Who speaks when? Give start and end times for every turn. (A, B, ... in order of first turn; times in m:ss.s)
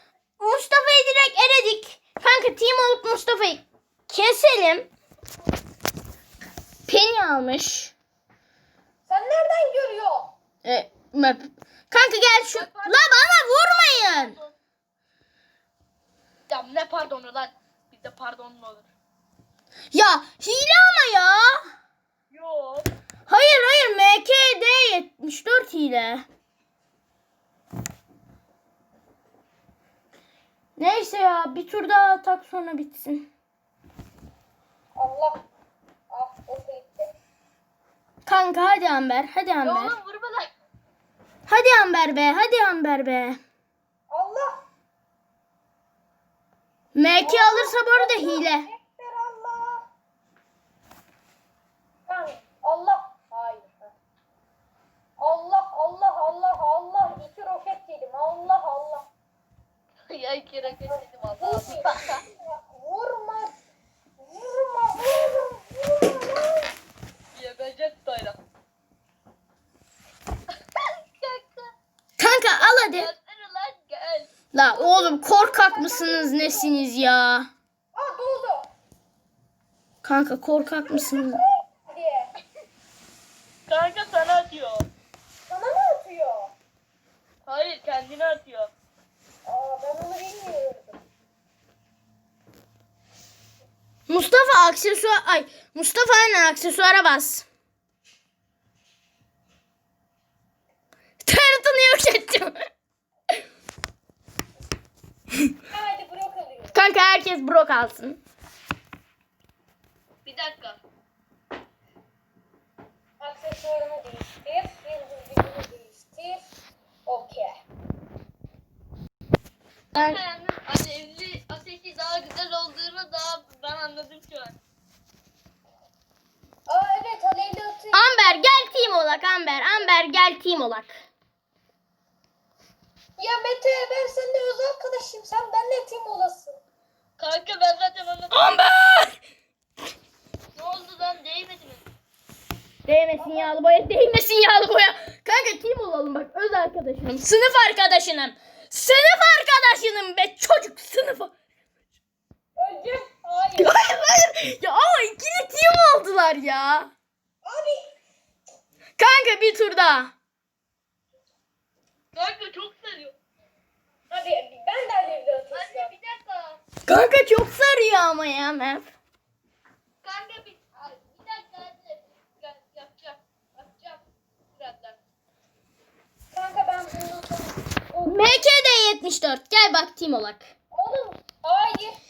0:00.4-0:04.9 A
0:06.9-0:07.9 A
0:09.1-0:10.3 B
0:10.6-0:14.4 A
0:12.5-0:14.5 C
0:16.5-0:18.9 C
0:19.9-0:21.7 A
0:22.3-0:22.9 C
0:23.3-0:26.2 A
0:30.8-0:33.3 A
0:35.0-0:35.4 B
0:36.1-0:37.1 B
0:38.3-0:39.9 A
0:39.6-0:40.5 C
0:41.5-0:43.4 A
0:44.1-0:44.6 B
0:46.9-0:48.7 A
0:47.2-0:49.9 B
0:52.1-0:53.9 B
0:55.2-0:59.1 B
1:00.1-1:02.2 C
1:00.7-1:03.6 B
1:01.7-1:02.0 A
1:04.2-1:06.7 B
1:07.4-1:08.4 C
1:10.5-1:11.7 C
1:12.2-1:13.1 A
1:12.6-1:14.3 C
1:14.5-1:17.5 A
1:14.7-1:16.8 B
1:17.9-1:18.7 B
1:20.0-1:21.4 A
1:20.9-1:22.3 B
1:23.7-1:24.9 C
1:25.4-1:26.5 B
1:27.4-1:28.7 C
1:29.4-1:31.0 B
1:34.1-1:37.4 A
1:41.2-1:42.6 A
1:45.7-1:46.8 B
1:46.8-1:48.2 A
1:50.2-1:50.8 C
1:53.2-1:56.5 B
1:57.1-1:57.6 B
1:59.9-2:00.2 A
1:59.9-2:04.6 C
2:06.7-2:09.2 B
2:07.9-2:11.0 A
2:13.2-2:16.6 B
2:17.2-2:18.6 C
2:18.3-2:19.2 A
2:20.6-2:21.8 C
2:22.9-2:31.3 A
2:23.2-2:23.6 B
2:32.6-2:33.8 B
2:33.6-2:36.9 A
2:37.4-2:37.9 B
2:39.0-2:40.1 A
2:42.1-2:43.2 C
2:44.1-2:45.9 B
2:45.5-2:46.6 C
2:46.9-2:48.8 A
2:50.0-2:54.0 C
2:54.6-2:55.0 C
2:56.3-2:58.4 B
2:58.1-3:00.5 A
3:00.7-3:02.0 B